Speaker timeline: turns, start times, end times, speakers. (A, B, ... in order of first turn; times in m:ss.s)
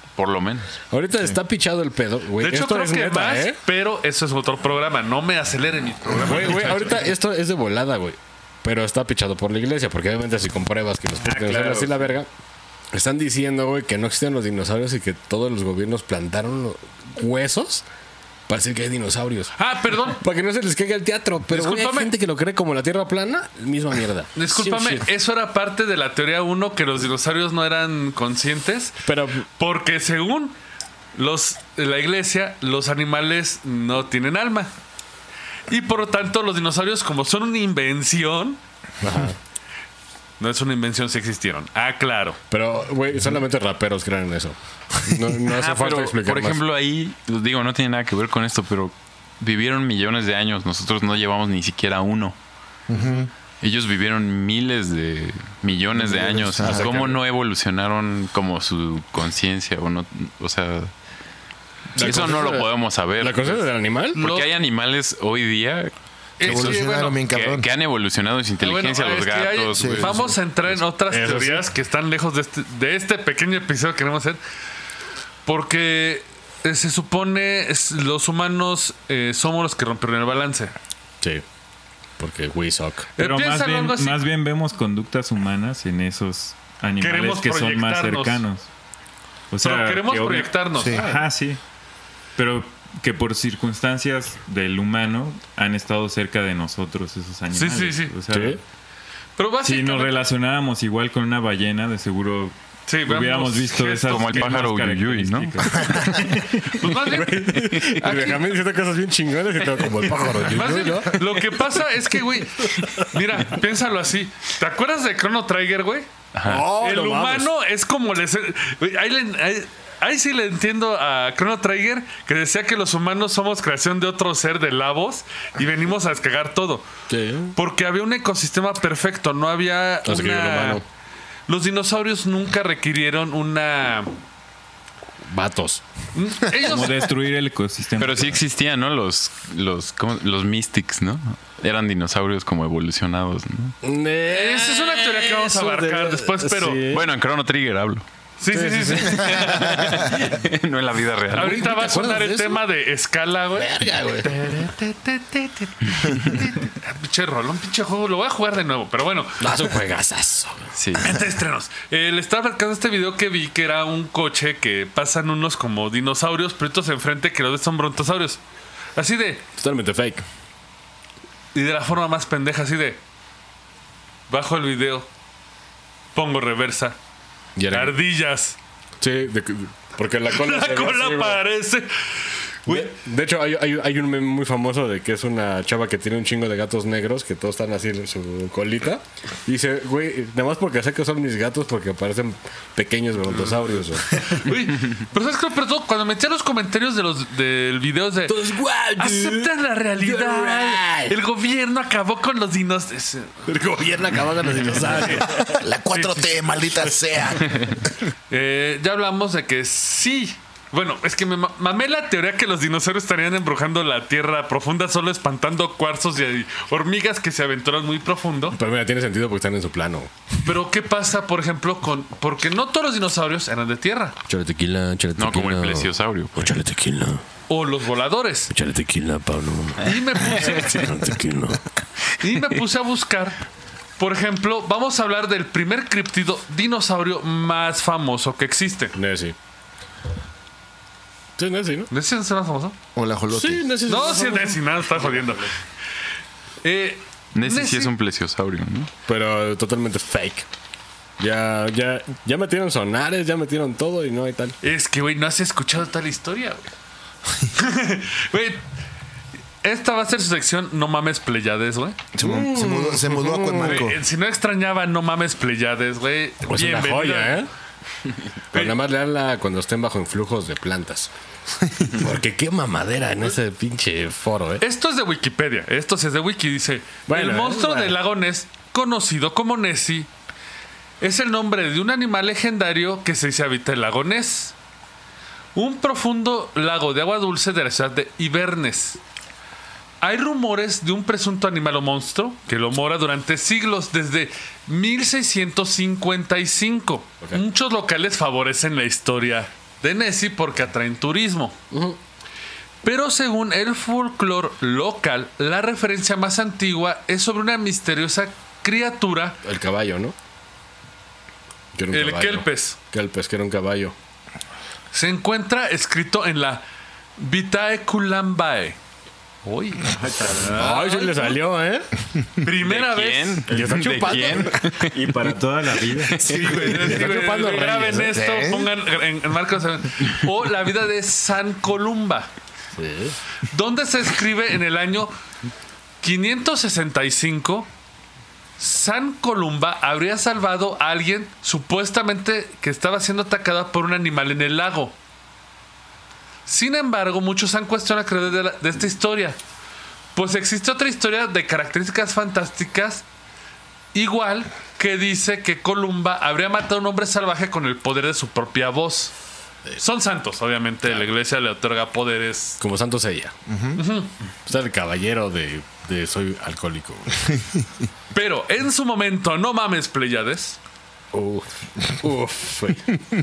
0:00.2-0:00.7 A
0:00.9-0:03.6 B
0:02.4-0:07.1 C
0:06.2-0:12.3 B
0:11.3-0:12.1 D
0:12.9-0:17.8 B
0:18.5-0:19.5 B
0:19.6-0:20.2 C
0:20.2-0:25.0 B
0:21.5-0:22.1 C
0:24.3-0:29.0 C
0:29.0-0:29.4 B
0:29.6-0:30.5 C
0:31.2-0:34.7 C
0:35.7-0:38.6 C
0:39.0-0:39.4 B
0:40.4-0:42.4 C
0:42.5-0:46.6 B
0:45.5-0:52.3 A
0:52.9-0:53.3 E
0:53.6-1:00.9 A
0:55.9-0:57.2 B
0:56.6-0:56.9 E
1:01.9-1:04.2 B
1:02.0-1:10.8 A
1:04.1-1:04.5 C
1:06.4-1:07.2 C
1:06.4-1:07.7 E
1:08.6-1:14.4 C
1:09.7-1:10.1 E
1:11.1-1:11.7 B
1:15.4-1:20.7 C
1:22.2-1:23.1 B
1:23.2-1:24.2 C
1:23.2-1:28.7 D
1:27.0-1:28.4 C
1:29.5-1:31.6 D
1:29.6-1:31.2 C
1:30.8-1:31.1 E
1:32.4-1:38.6 D
1:37.5-1:38.1 C
1:38.3-1:38.6 B
1:39.4-1:40.2 C
1:39.6-1:46.8 D
1:42.9-1:44.5 C
1:44.1-1:45.9 A
1:45.8-1:46.3 E
1:46.6-1:48.5 C
1:47.0-1:51.8 B
1:50.5-1:56.1 C
1:52.6-1:53.1 B
1:56.3-1:56.7 A
1:56.4-1:57.5 B
1:56.8-2:06.9 C
2:07.1-2:07.5 B
2:07.5-2:10.8 C
2:10.0-2:10.8 B
2:11.5-2:14.1 C
2:15.3-2:15.8 B
2:16.1-2:17.0 C
2:16.6-2:18.4 D
2:18.0-2:23.8 A
2:23.8-2:27.1 B
2:24.3-2:26.8 C
2:26.9-2:28.0 A
2:28.4-2:29.5 C
2:28.5-2:29.6 B
2:29.0-2:30.2 E
2:29.2-2:31.8 A
2:31.3-2:33.7 C
2:31.4-2:32.6 E
2:33.5-2:34.3 B
2:34.2-2:39.6 C
2:39.4-2:40.6 B
2:40.7-2:41.3 A
2:41.0-2:48.4 C
2:49.0-2:49.4 C
2:49.6-2:50.2 B
2:51.5-2:53.0 C
2:54.3-2:55.1 C
2:56.1-2:57.0 C
2:57.6-2:58.0 B
2:57.7-2:58.6 C
2:59.0-3:01.4 B
3:00.3-3:01.9 C
3:02.6-3:14.2 B
3:14.2-3:23.4 C
3:18.3-3:21.2 B
3:23.5-3:25.6 B
3:25.0-3:25.2 C
3:25.2-3:27.9 E
3:28.3-3:38.6 C
3:38.6-3:40.2 B
3:40.4-3:44.2 C
3:44.3-3:47.2 B
3:45.2-3:46.6 A
3:47.5-3:48.5 C
3:48.5-3:51.6 B
3:49.8-3:50.7 C
3:52.2-3:53.4 C
3:54.0-3:58.9 C
3:59.0-3:59.4 B
4:01.4-4:01.9 B
4:01.9-4:02.7 C
4:02.9-4:03.7 E
4:03.3-4:05.4 B
4:03.9-4:05.5 C
4:06.6-4:07.9 C
4:07.3-4:08.9 A
4:09.0-4:10.5 B
4:11.2-4:14.6 B
4:14.6-4:16.7 C
4:17.6-4:18.6 C
4:19.6-4:22.0 C
4:22.1-4:24.0 E
4:22.2-4:23.8 B
4:23.6-4:27.4 C
4:26.5-4:27.5 B
4:28.5-4:31.1 B
4:31.9-4:34.6 B
4:34.6-4:40.1 C
4:37.1-4:37.9 B
4:41.0-4:44.5 C
4:45.5-4:49.0 C
4:50.0-5:01.5 C
5:01.7-5:02.0 B
5:02.8-5:09.4 C
5:09.4-5:10.1 B
5:11.7-5:13.9 B
5:11.9-5:12.8 C
5:14.9-5:16.6 C
5:17.2-5:18.8 C
5:19.4-5:21.4 C
5:19.9-5:20.6 D
5:20.5-5:21.9 B
5:22.4-5:23.5 C
5:22.6-5:25.0 A
5:23.5-5:24.8 B
5:23.5-5:26.9 D
5:26.1-5:26.9 A
5:26.2-5:28.1 B
5:26.2-5:32.3 C
5:28.1-5:28.7 E
5:32.7-5:33.2 B
5:33.5-5:35.1 C
5:36.0-5:37.7 C
5:38.6-5:44.9 C
5:46.4-5:49.4 C
5:50.1-5:53.0 C
5:53.9-5:59.1 C
5:59.8-6:02.6 C
6:02.6-6:03.4 B
6:03.5-6:03.8 E
6:03.8-6:04.1 C
6:04.4-6:07.4 B
6:08.1-6:10.6 C
6:11.1-6:13.0 B